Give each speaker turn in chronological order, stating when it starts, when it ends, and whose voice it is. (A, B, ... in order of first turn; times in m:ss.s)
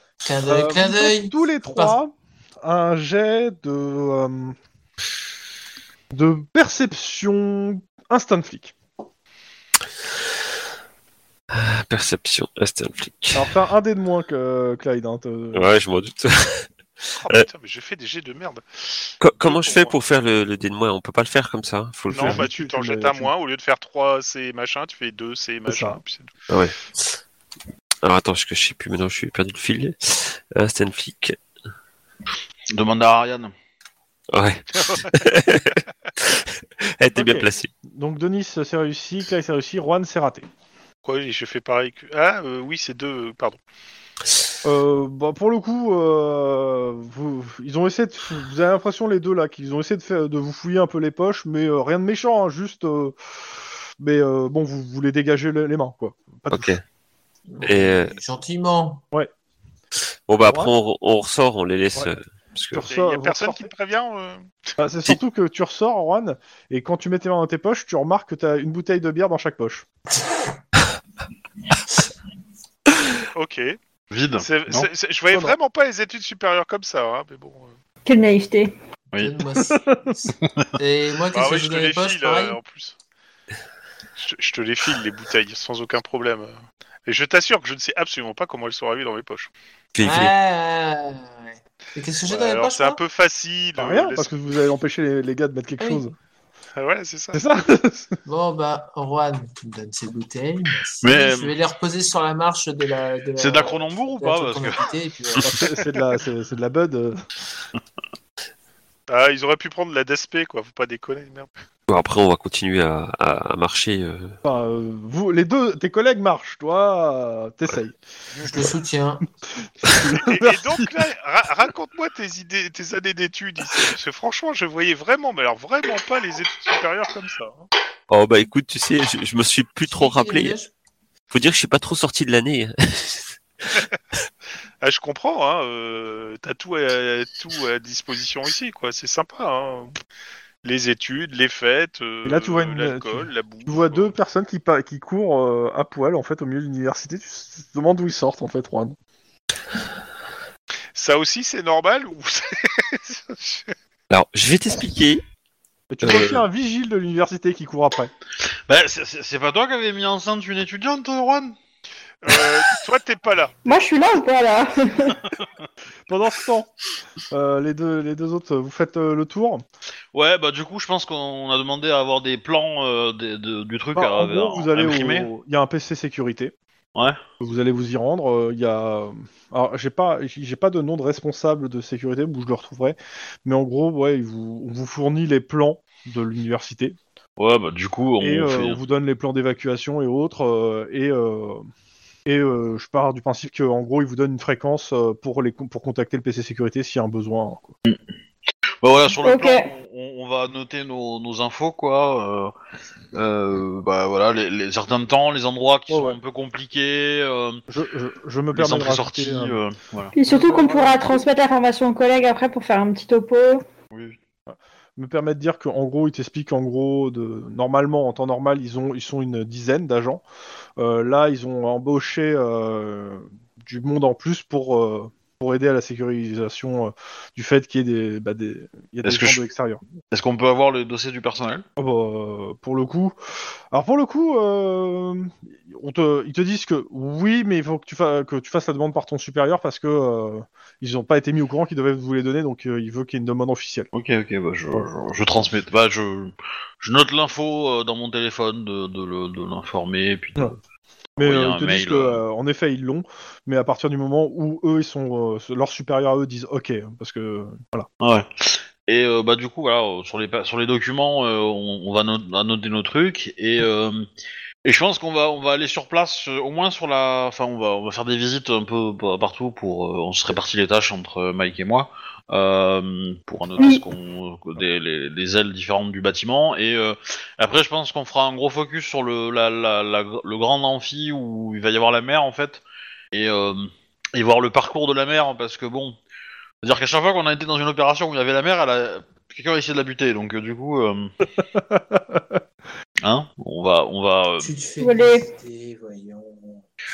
0:00.2-0:02.0 A
0:00.4-0:04.6 B
0:06.1-0:08.7 B
0:11.5-0:13.5 C
0:13.3-0:15.7 B
0:15.5-0:17.5 C
0:17.2-0:20.0 D
0:19.2-0:22.5 C
0:22.1-0:26.3 D
0:22.1-0:23.3 B
0:25.7-0:26.0 B
0:26.5-0:27.2 C
0:28.0-0:31.4 C
0:32.7-0:33.5 E
0:34.3-0:37.7 C
0:37.2-0:40.5 B
0:41.0-0:43.6 D
0:44.6-0:53.2 B
0:54.0-0:56.7 B
0:56.5-0:56.8 C
0:57.5-0:59.0 A
0:57.6-0:58.2 C
1:00.3-1:02.8 C
1:00.4-1:00.7 B
1:02.7-1:03.7 B
1:02.8-1:04.5 D
1:04.8-1:09.9 B
1:13.3-1:13.8 D
1:14.1-1:14.9 E
1:14.4-1:17.7 D
1:15.3-1:15.6 B
1:18.1-1:18.7 F
1:19.1-1:19.4 E
1:19.2-1:22.6 A
1:21.3-1:23.0 D
1:24.2-1:26.5 D
1:27.1-1:29.5 D
1:30.0-1:30.3 C
1:30.0-1:33.0 A
1:32.3-1:34.3 D
1:33.8-1:36.1 B
1:35.8-1:36.1 A
1:36.8-1:37.4 D
1:37.3-1:38.2 B
1:38.3-1:45.7 A
1:41.0-1:41.6 E
1:43.4-1:44.9 E
1:45.4-1:47.2 B
1:49.1-1:51.5 D
1:51.9-1:54.4 C
1:54.4-1:58.7 B
1:58.4-1:59.3 A
1:59.8-2:00.9 B
2:00.2-2:07.7 D
2:08.1-2:10.6 C
2:09.9-2:10.7 A
2:11.3-2:13.3 C
2:14.8-2:20.0 D
2:20.6-2:24.1 D
2:22.2-2:29.0 B
2:31.0-2:33.7 D
2:34.1-2:35.2 C
2:35.9-2:38.1 B
2:36.0-2:36.4 C
2:38.7-2:41.6 E
2:42.2-2:43.6 D
2:43.7-2:45.2 F
2:46.1-2:46.7 B
2:47.3-2:49.6 B
2:50.1-2:55.3 E
2:54.0-2:56.5 B
2:57.4-3:07.0 B
3:07.4-3:08.8 E
3:08.2-3:11.7 B
3:12.3-3:17.7 B
3:18.8-3:22.5 E
3:19.2-3:19.7 F
3:23.1-3:27.6 E
3:25.9-3:26.2 B
3:27.7-3:29.6 B
3:28.5-3:30.2 E
3:30.1-3:33.6 F
3:30.3-3:30.7 A
3:30.3-3:31.0 B
3:33.9-3:34.2 E
3:34.5-3:40.2 B
3:40.8-3:49.8 B
3:49.0-3:49.4 E
3:50.1-3:51.6 E
3:51.8-3:53.2 B
3:53.7-4:03.9 B
4:03.9-4:10.6 E
4:11.2-4:12.2 E
4:11.2-4:17.9 B
4:18.0-4:24.1 E
4:24.6-4:46.0 E
4:33.6-4:33.8 F
4:46.6-4:51.1 E
4:51.5-4:52.4 B
4:53.0-4:54.5 E
4:54.4-4:56.6 A
4:54.8-4:55.2 F